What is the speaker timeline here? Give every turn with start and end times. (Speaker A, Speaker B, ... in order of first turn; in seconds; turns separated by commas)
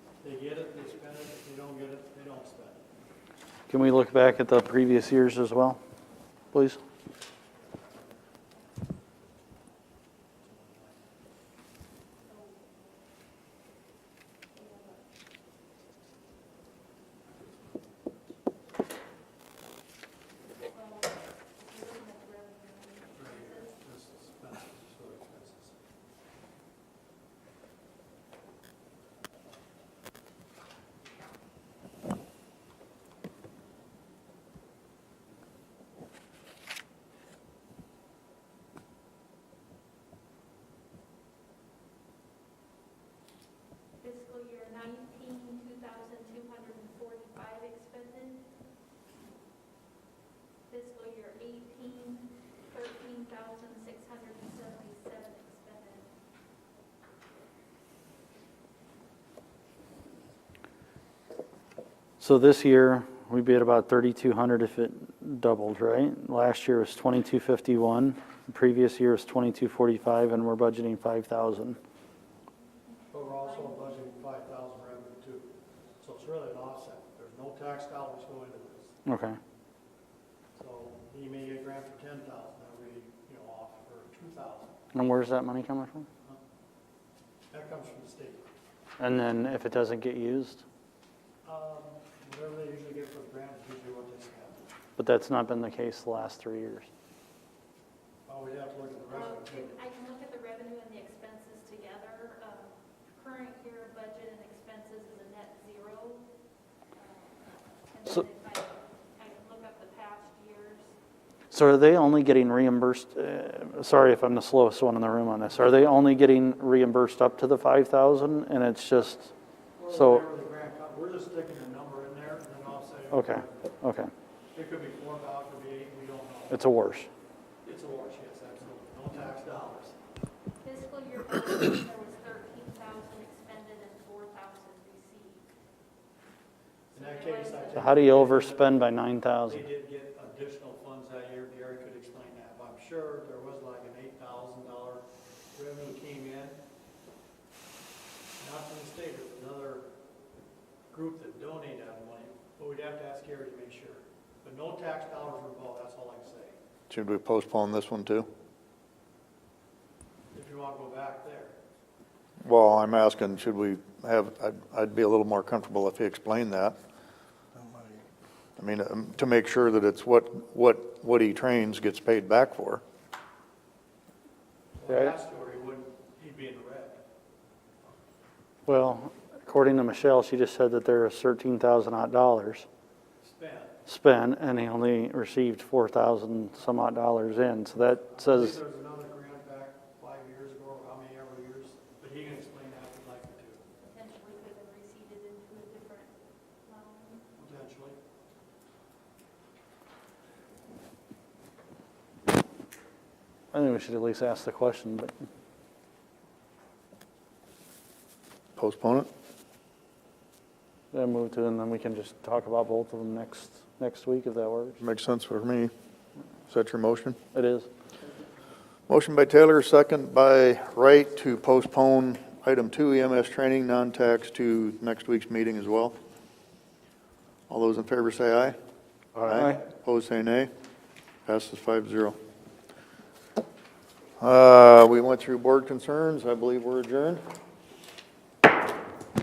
Speaker A: 0.2-2.8, Speaker B: 3.7-5.8, Speaker B: 6.5-6.8, Speaker A: 10.4-10.9, Speaker C: 12.2-12.9, Speaker C: 14.5-15.0, Speaker C: 20.7-23.7, Speaker A: 23.1-25.7, Speaker C: 44.0-48.5, Speaker C: 50.7-56.1, Speaker B: 62.2-71.8, Speaker C: 72.8-73.9, Speaker A: 73.1-78.9, Speaker B: 79.0-79.4, Speaker A: 80.5-84.8, Speaker B: 84.9-86.0, Speaker A: 87.5-88.5, Speaker B: 89.0-90.6, Speaker A: 91.4-94.6, Speaker B: 95.0-96.9, Speaker A: 98.2-99.7, Speaker C: 99.1-106.3, Speaker C: 106.9-110.9, Speaker B: 111.5-119.3, Speaker A: 119.8-123.7, Speaker B: 119.9-120.2, Speaker B: 123.1-124.1, Speaker A: 124.5-126.7, Speaker B: 126.5-127.1, Speaker A: 127.6-129.9, Speaker C: 130.6-135.4, Speaker C: 136.9-138.0, Speaker A: 136.9-138.9, Speaker B: 137.7-139.6, Speaker A: 139.5-146.6, Speaker A: 148.4-149.9, Speaker A: 150.9-156.6, Speaker D: 156.9-158.3, Speaker A: 160.3-161.5, Speaker D: 162.4-166.8, Speaker D: 168.6-172.8, Speaker A: 174.8-177.0, Speaker B: 178.7-182.7, Speaker A: 183.2-183.8, Speaker B: 183.9-188.6, Speaker A: 188.1-193.6, Speaker C: 193.8-197.3, Speaker A: 197.3-198.0, Speaker B: 203.5-205.1, Speaker D: 208.6-209.1, Speaker B: 210.9-214.8, Speaker D: 214.8-215.7, Speaker D: 216.5-217.2, Speaker B: 217.3-217.7, Speaker D: 218.9-225.9, Speaker D: 227.5-228.6, Speaker B: 229.1-229.6, Speaker D: 229.2-230.5, Speaker D: 231.2-232.2, Speaker D: 234.2-237.2